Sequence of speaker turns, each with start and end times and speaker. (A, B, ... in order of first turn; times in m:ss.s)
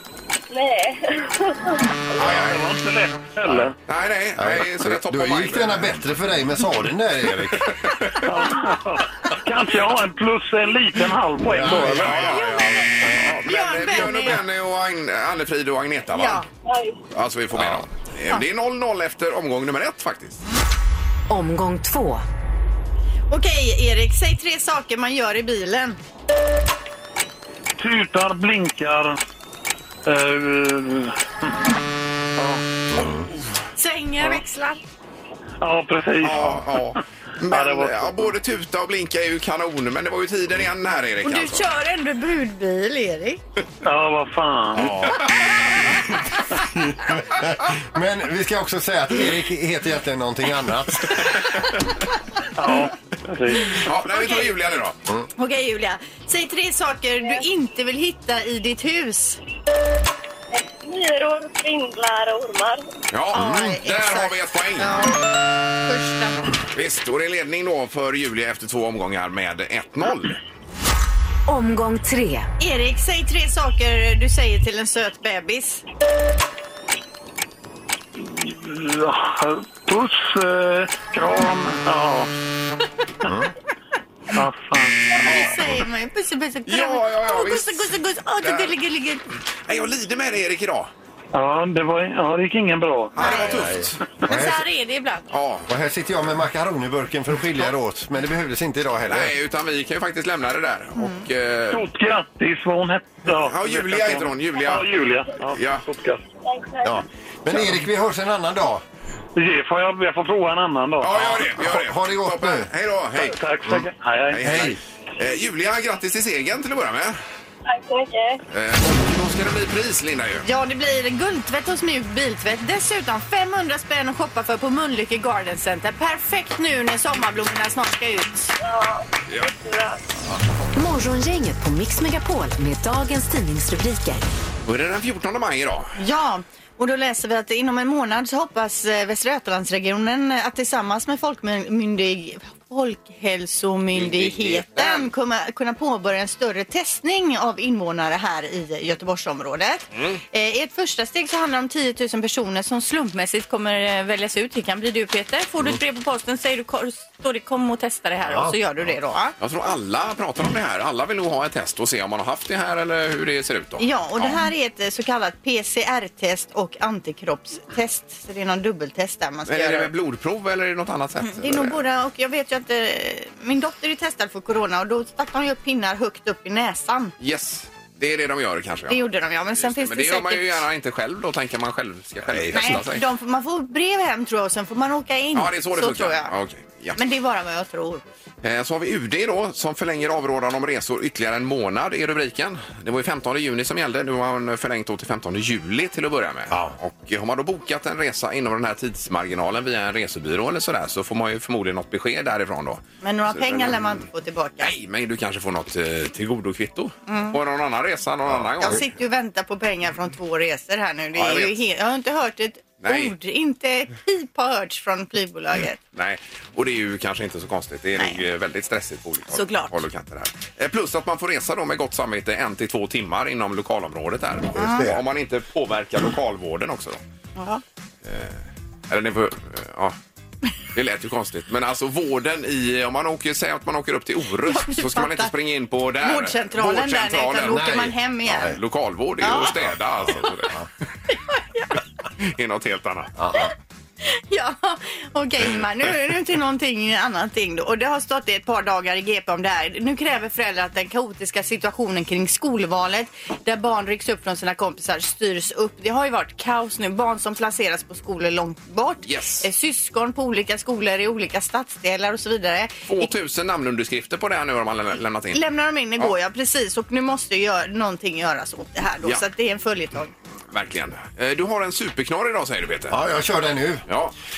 0:00.5-0:01.8 A
0:02.2-0:02.6 B
0:02.2-0:03.8 C
0:03.9-0:06.0 B
0:04.4-0:07.8 D
0:07.6-0:08.2 B
0:08.2-0:12.4 C
0:11.5-0:12.9 D
0:11.6-0:16.4 B
0:12.3-0:14.4 E
0:16.1-0:16.4 E
0:16.6-0:17.0 A
0:17.1-0:20.4 B
0:17.6-0:17.8 D
0:21.3-0:22.2 F
0:23.3-0:26.0 E
0:27.8-0:29.2 C
0:30.1-0:31.2 C
0:32.4-0:32.6 C
0:33.0-0:33.2 D
0:33.8-0:34.8 E
0:35.6-0:38.3 C
0:36.2-0:41.6 B
0:41.2-0:43.4 E
0:43.8-0:45.1 C
0:44.8-0:46.0 B
0:46.7-0:51.3 D
0:52.6-0:53.8 C
0:53.7-0:55.0 B
0:54.1-0:54.5 E
0:55.4-0:59.4 E
1:00.6-1:02.8 A
1:03.1-1:05.0 B
1:03.3-1:05.3 E
1:03.4-1:03.8 D
1:05.8-1:06.4 E
1:06.7-1:10.4 B
1:11.5-1:12.5 F
1:12.6-1:15.8 E
1:18.2-1:22.3 C
1:23.3-1:23.5 D
1:24.3-1:25.3 C
1:25.1-1:29.2 E
1:25.2-1:25.7 B
1:26.7-1:28.7 B
1:29.7-1:30.9 B
1:31.3-1:33.1 C
1:33.2-1:34.0 B
1:33.2-1:33.5 E
1:33.2-1:34.7 D
1:34.2-1:35.3 E
1:35.3-1:35.7 B
1:35.7-1:39.3 D
1:39.1-1:41.9 B
1:41.0-1:41.2 E
1:41.7-1:46.2 C
1:43.3-1:44.9 B
1:45.5-1:45.9 B
1:46.4-1:47.0 A
1:46.8-1:48.8 D
1:49.4-1:51.4 C
1:51.0-1:53.4 B
1:51.2-1:52.7 D
1:53.2-1:54.7 C
1:54.3-1:57.2 B
1:54.4-1:54.8 D
1:57.7-1:58.4 A
1:58.5-2:00.4 B
2:00.4-2:08.5 E
2:08.6-2:10.0 A
2:10.8-2:14.3 F
2:14.7-2:16.0 B
2:16.0-2:39.3 E
2:23.9-2:25.1 B
2:30.0-2:30.2 B
2:38.2-2:38.6 D
2:39.4-2:44.4 B
2:43.8-2:49.9 E
2:49.5-2:51.8 B
2:51.2-2:57.1 E
2:57.2-2:59.0 B
2:58.9-3:00.6 E
2:59.6-3:03.0 B
3:02.3-3:02.8 D
3:02.5-3:06.3 E
3:05.3-3:07.0 B
3:07.0-3:08.0 E
3:08.4-3:24.0 B
3:16.5-3:16.8 D
3:23.0-3:24.7 E
3:24.6-3:28.8 B
3:27.1-3:27.4 E
3:28.6-3:35.8 E
3:31.2-3:31.6 B
3:32.8-3:33.1 B
3:35.9-3:47.0 B
3:39.3-3:39.8 E
3:44.6-3:44.9 E
3:44.6-3:45.0 D
3:47.4-3:47.6 E
3:48.0-3:50.0 B
3:50.7-3:57.8 B
3:54.5-3:55.3 E
3:56.0-3:58.5 E
3:57.4-3:58.6 D
3:58.4-4:00.6 B
3:59.2-3:59.5 E
4:00.1-4:00.7 D
4:01.4-4:01.7 E
4:02.2-4:03.1 B
4:03.2-4:03.5 D
4:04.0-4:23.1 E
4:19.0-4:19.5 B
4:22.9-4:25.4 B
4:25.3-4:30.1 E
4:30.5-4:33.0 B
4:32.9-4:33.8 D
4:33.9-4:34.1 B